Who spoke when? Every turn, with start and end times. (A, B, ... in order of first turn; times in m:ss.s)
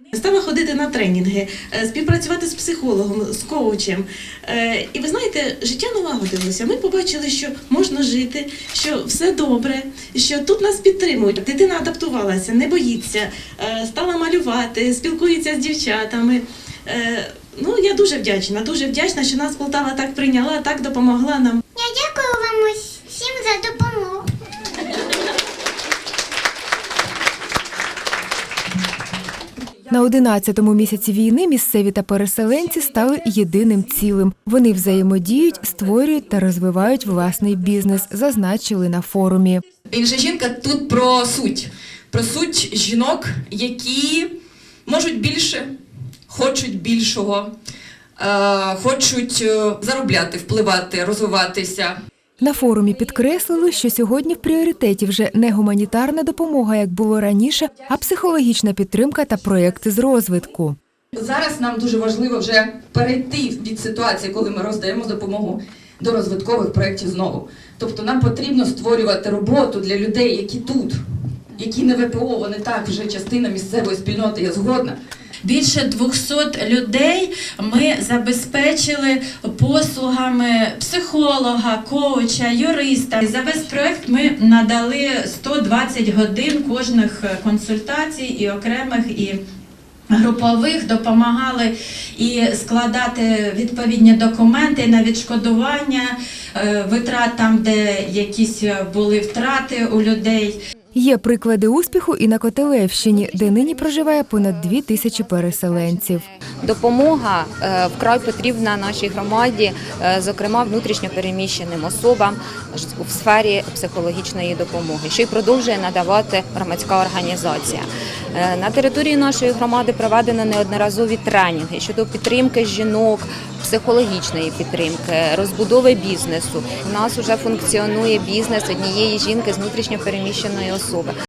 0:00.1-0:21.6 A
0:21.8-0:24.2 B
0:29.9-0:39.6 C
0:39.9-0:44.3 D
0:44.9-0:45.7 D
0:46.3-0:47.5 D
0:48.2-0:52.0 D
0:52.4-1:00.8 C
1:01.1-1:11.0 D
1:11.6-1:15.0 D
1:15.4-1:29.4 E
1:30.1-1:40.6 E
1:41.0-1:46.3 C
1:46.6-2:11.1 F